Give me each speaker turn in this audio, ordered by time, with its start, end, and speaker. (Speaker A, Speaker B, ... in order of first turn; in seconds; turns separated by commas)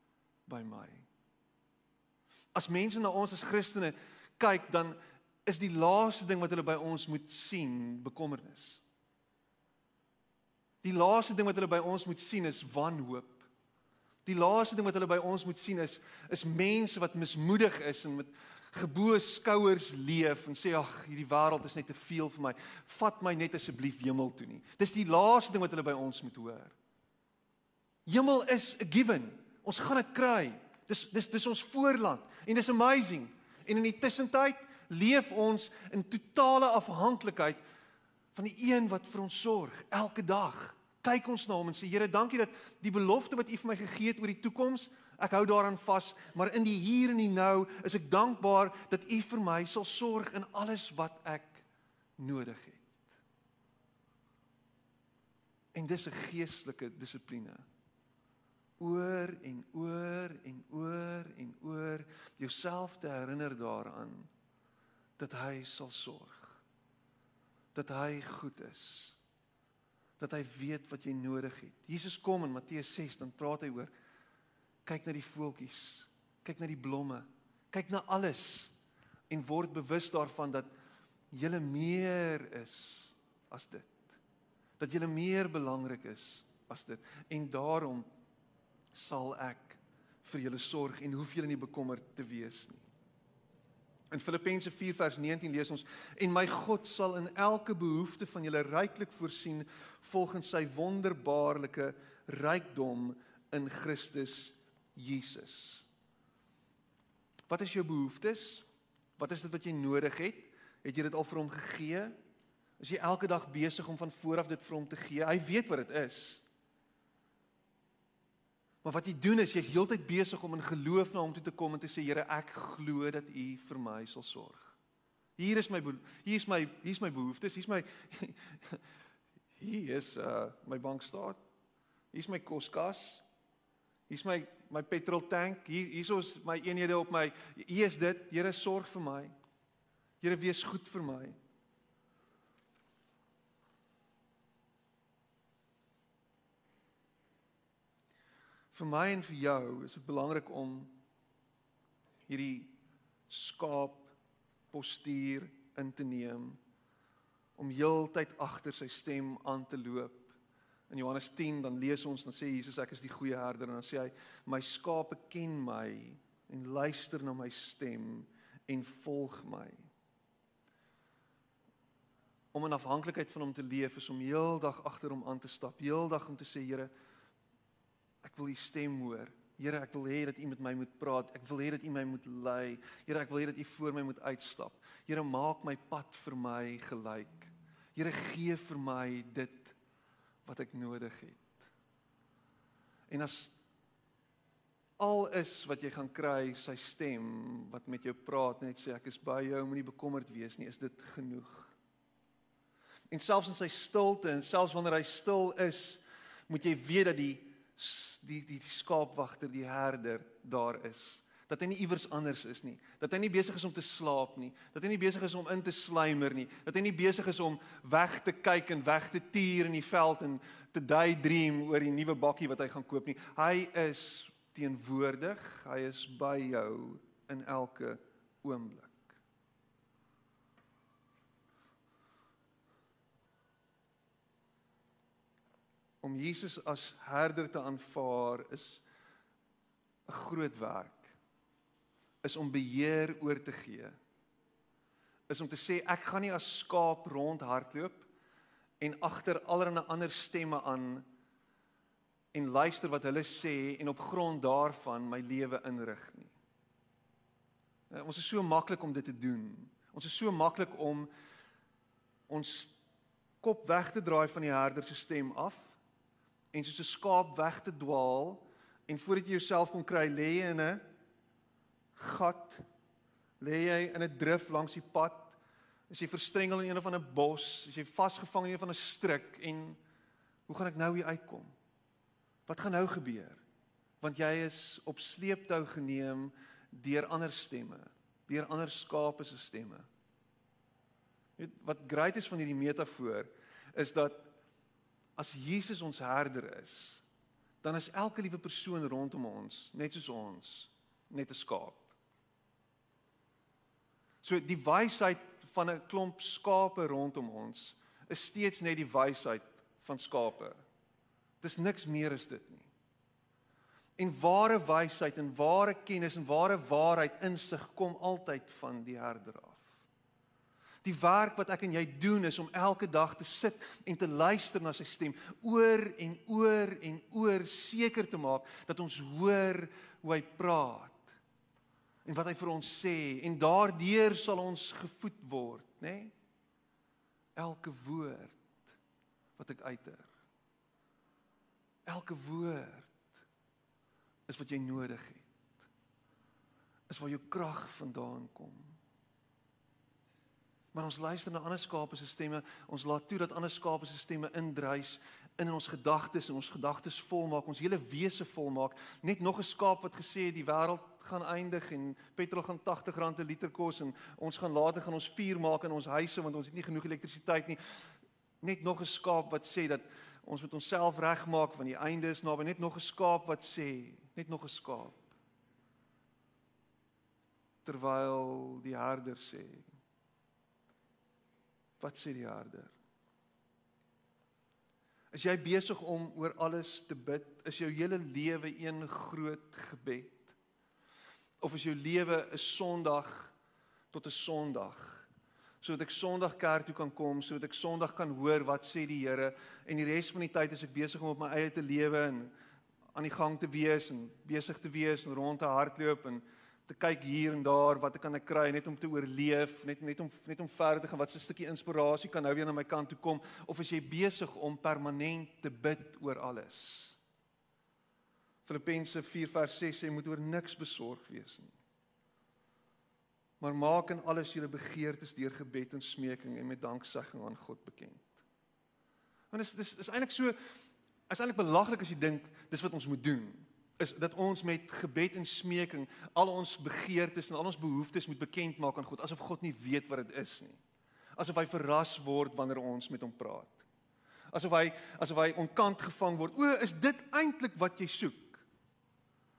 Speaker A: 0.5-1.1, Speaker A: 2.5-8.8, Speaker A: 10.8-13.5, Speaker A: 14.2-26.7, Speaker A: 28.1-37.6, Speaker A: 38.3-51.6, Speaker A: 52.2-53.1, Speaker A: 55.7-57.6, Speaker A: 58.8-64.3, Speaker A: 65.2-66.6, Speaker A: 67.7-69.2, Speaker A: 70.2-73.9, Speaker A: 74.8-78.7, Speaker A: 79.3-80.7, Speaker A: 81.3-84.2, Speaker A: 84.8-88.1, Speaker A: 88.9-92.8, Speaker A: 94.1-105.8, Speaker A: 107.5-108.6, Speaker A: 109.2-112.2, Speaker A: 112.8-116.4, Speaker A: 118.8-124.8, Speaker A: 125.4-128.8, Speaker A: 129.6-131.4, Speaker A: 132.1-133.2, Speaker A: 134.1-139.3, Speaker A: 140.2-141.3, Speaker A: 148.7-150.9, Speaker A: 152.3-152.8, Speaker A: 153.3-154.1, Speaker A: 154.7-156.6, Speaker A: 157.6-160.3, Speaker A: 160.9-169.9, Speaker A: 172.5-176.9, Speaker A: 178.2-189.7, Speaker A: 190.4-191.6, Speaker A: 193.1-193.5, Speaker A: 195.0-201.7, Speaker A: 203.1-229.2, Speaker A: 236.0-238.8, Speaker A: 240.1-241.2, Speaker A: 242.2-244.0, Speaker A: 245.3-248.1, Speaker A: 248.8-251.0, Speaker A: 252.3-256.3, Speaker A: 257.9-261.1, Speaker A: 262.3-262.8, Speaker A: 263.4-265.8, Speaker A: 266.5-270.9, Speaker A: 271.9-272.6, Speaker A: 273.4-275.4, Speaker A: 275.9-279.8, Speaker A: 280.5-281.5, Speaker A: 282.5-283.4, Speaker A: 284.0-289.9, Speaker A: 291.4-294.3, Speaker A: 295.1-297.0, Speaker A: 297.6-301.9, Speaker A: 304.2-310.6, Speaker A: 311.4-312.7, Speaker A: 314.0-319.8, Speaker A: 320.8-331.1, Speaker A: 332.0-336.1, Speaker A: 337.4-338.7, Speaker A: 339.4-340.1, Speaker A: 341.9-343.1, Speaker A: 344.3-345.3, Speaker A: 346.9-348.8, Speaker A: 350.7-367.9, Speaker A: 368.4-375.1, Speaker A: 377.6-379.7, Speaker A: 381.8-382.7, Speaker A: 385.1-390.4, Speaker A: 391.4-393.3, Speaker A: 393.9-395.1, Speaker A: 395.6-402.3, Speaker A: 402.9-417.0, Speaker A: 418.4-421.6, Speaker A: 423.4-428.2, Speaker A: 429.3-430.4, Speaker A: 431.1-440.6, Speaker A: 441.2-443.6, Speaker A: 444.3-448.4